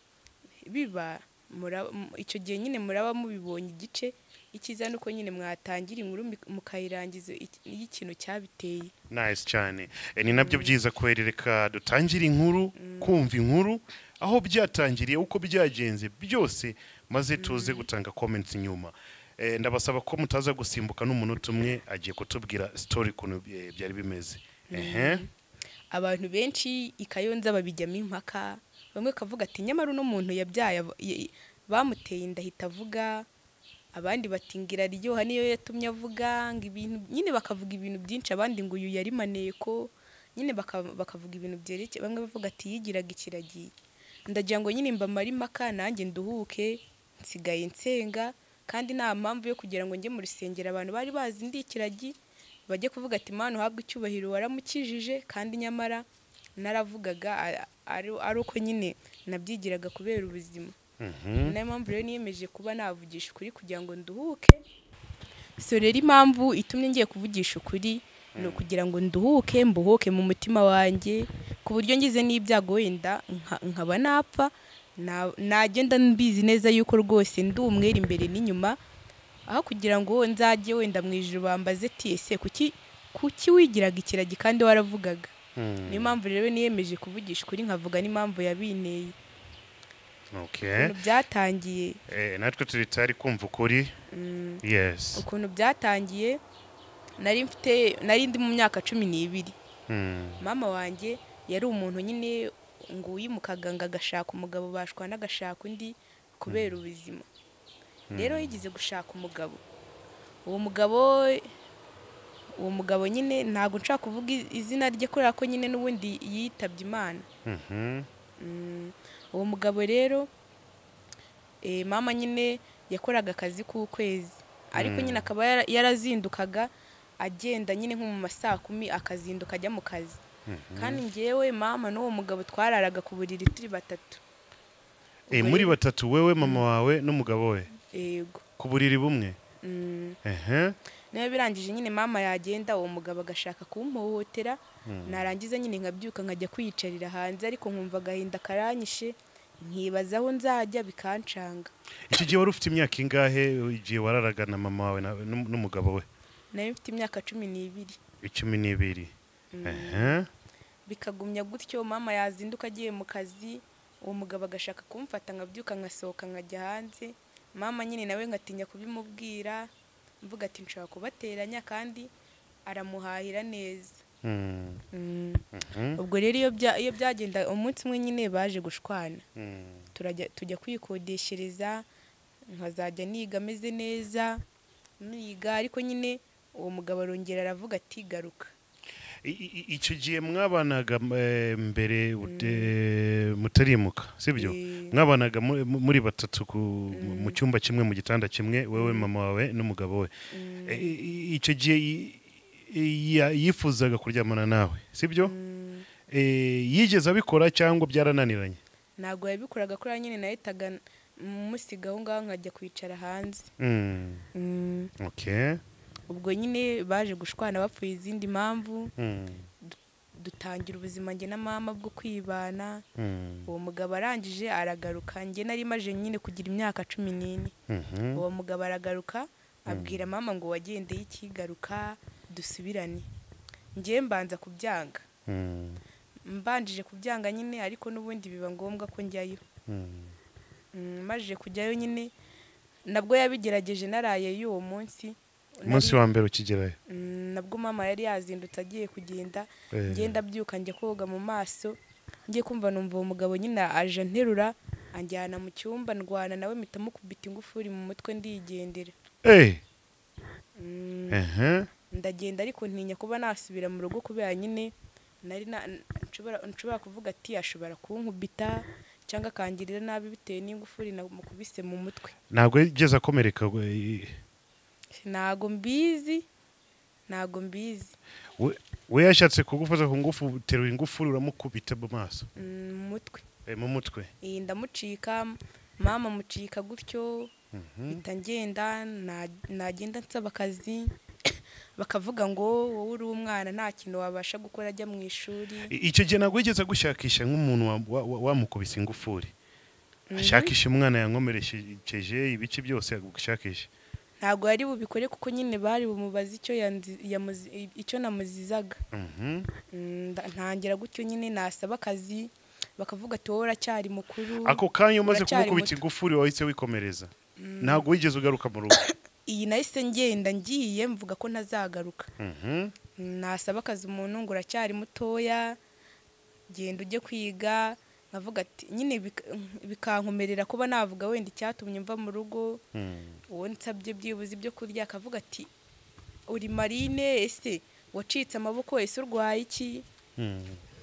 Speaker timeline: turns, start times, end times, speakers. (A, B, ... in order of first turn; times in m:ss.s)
0:00.7-0:08.9 A
0:09.1-0:25.2 B
0:10.3-0:10.8 A
0:12.8-0:13.2 A
0:17.4-0:17.9 A
0:24.7-0:25.3 A
0:25.9-0:33.3 A
0:34.0-0:43.7 A
0:44.3-0:52.2 A
0:52.7-0:56.0 A
0:56.6-1:00.8 A
1:01.0-1:01.6 B
1:01.4-1:04.6 A
1:05.6-1:18.8 A
1:08.4-1:08.7 B
1:19.5-1:25.3 A
1:25.6-1:26.2 B
1:25.9-1:29.2 A
1:30.3-1:30.9 B
1:30.7-1:32.0 A
1:32.1-1:34.0 B
1:34.1-1:34.6 A
1:34.6-1:35.2 B
1:35.1-1:36.4 A
1:37.2-1:39.6 A
1:39.9-1:40.4 B
1:40.4-1:47.3 A
1:46.5-1:46.8 B
1:48.1-1:48.6 B
1:48.1-1:49.6 A
1:50.5-1:51.5 A
1:52.6-1:57.3 A
1:57.4-1:58.1 B
1:58.4-2:00.3 A
2:01.6-2:10.2 A
2:04.8-2:05.3 B
2:10.5-2:11.0 B
2:10.8-2:14.2 A
2:15.3-2:15.8 A
2:15.3-2:17.7 B
2:17.9-2:18.4 A
2:18.6-2:19.4 B
2:19.6-2:20.2 A
2:20.2-2:20.8 B
2:21.1-2:31.7 A
2:24.9-2:25.3 B
2:32.1-2:36.1 B
2:36.5-2:38.0 A
2:38.2-2:40.3 B
2:39.5-2:40.2 A
2:40.9-2:49.7 A
2:50.2-2:52.1 A
2:52.7-2:54.0 A
2:54.2-2:54.8 B
2:54.9-2:55.4 A
2:55.5-2:56.0 B
2:56.0-2:59.2 A
2:59.4-2:59.9 B
2:59.9-3:01.9 A
3:02.5-3:04.4 A
3:05.0-3:08.5 A
3:09.2-3:20.1 B
3:12.2-3:12.7 A
3:14.4-3:15.0 A
3:16.9-3:17.4 A
3:18.8-3:19.1 A
3:20.3-3:21.0 A
3:20.7-3:25.3 B
3:25.2-3:25.9 A
3:26.1-3:28.6 B
3:29.0-3:33.5 A
3:33.6-3:34.2 B
3:34.3-3:34.9 A
3:35.0-3:35.6 B
3:36.1-3:38.9 A
3:39.0-3:39.5 B
3:39.6-3:42.8 A
3:43.0-3:43.5 B
3:43.5-3:47.5 A
3:47.7-3:48.2 B
3:48.2-3:53.1 A
3:49.7-3:50.0 B
3:53.8-3:55.1 A
3:55.3-3:55.8 B
3:56.3-3:59.4 A
3:59.7-4:00.2 B
4:00.7-4:02.1 A
4:02.9-4:06.0 A
4:05.6-4:06.8 B
4:06.9-4:11.8 A
4:09.7-4:10.2 B
4:12.3-4:18.9 A
4:19.2-4:19.6 B
4:20.6-4:21.2 A
4:21.1-4:21.7 B
4:21.9-4:32.2 A
4:32.3-4:34.2 B
4:35.0-4:36.3 A
4:37.1-4:38.0 A
4:38.4-4:42.3 B
4:42.4-4:43.3 A
4:43.5-4:44.1 B
4:44.2-4:47.3 A
4:47.5-4:48.0 B
4:47.9-4:50.9 A
4:51.8-4:55.7 A
4:55.7-4:59.3 B
5:00.1-5:00.5 A
5:00.2-5:03.7 B
5:04.2-5:08.8 A
5:08.9-5:09.5 B
5:09.7-5:15.8 A
5:14.4-5:18.8 B
5:17.4-5:17.8 A
5:19.3-5:22.1 A
5:22.2-5:22.7 B
5:23.0-5:25.6 A
5:26.5-5:32.6 A
5:32.7-5:33.2 B
5:33.3-5:35.5 A
5:36.3-5:39.8 A
5:40.2-5:40.6 B